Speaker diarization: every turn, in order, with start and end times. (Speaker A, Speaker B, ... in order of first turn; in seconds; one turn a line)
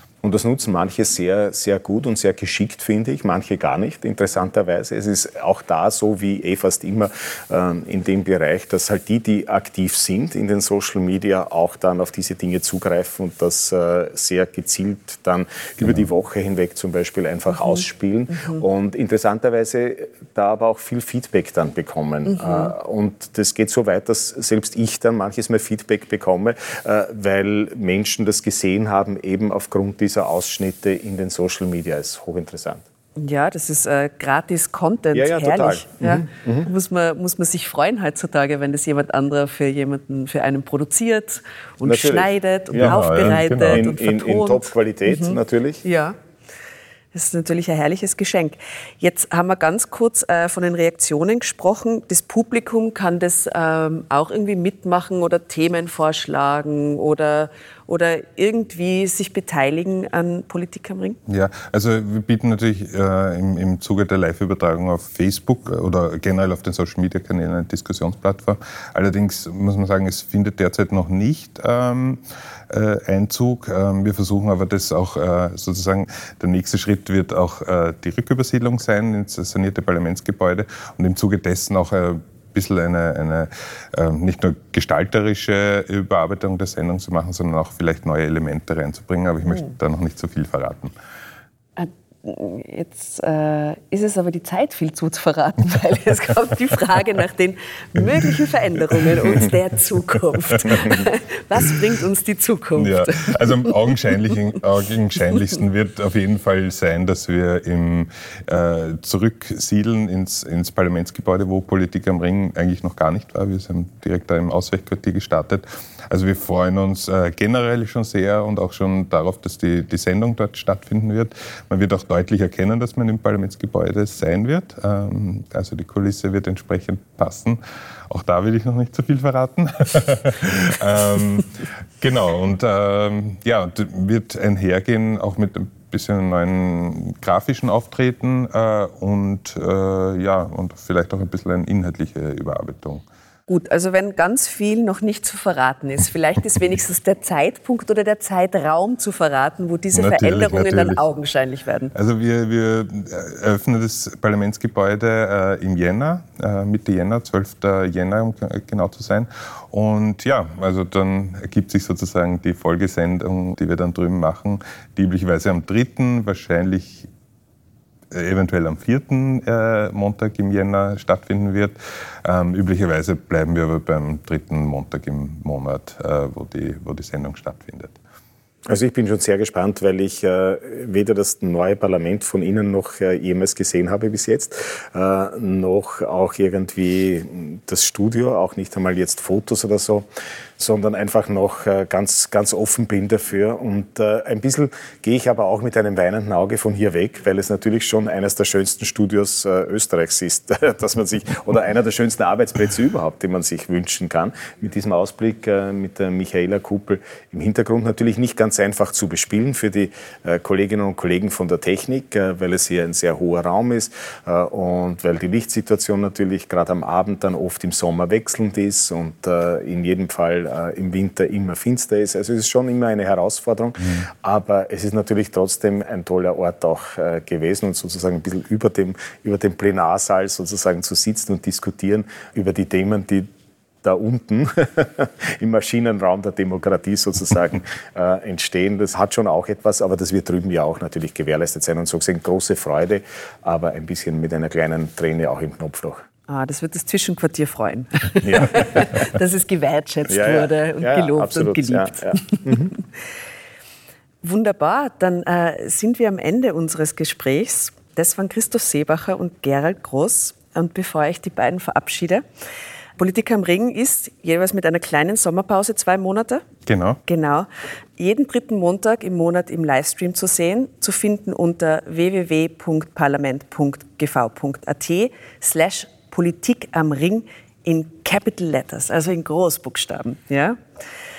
Speaker A: 0.2-32.8
Speaker B: 18.3-18.6
Speaker B: 22.3-22.7
Speaker B: 33.2-46.1
Speaker A: 35.1-36.7
Speaker A: 41.8-45.8
Speaker C: 42.7-43.9
Speaker B: 47.1-61.2
Speaker C: 61.3-90.9
Speaker B: 91.8-103.7
Speaker C: 99.0-99.5
Speaker C: 100.6-101.1
Speaker C: 102.8-143.0
Speaker B: 143.5-151.9
Speaker C: 149.9-151.0
Speaker C: 151.9-167.1
Speaker C: 168.1-177.9
Speaker A: 178.7-190.1
Speaker A: 190.6-233.3
Speaker A: 233.8-246.0
Speaker B: 246.3-252.7
Speaker A: 248.2-248.8
Speaker A: 250.1-252.7
Speaker B: 254.2-262.2
Speaker B: 263.0-266.4
Speaker C: 266.6-267.0
Speaker B: 267.1-280.6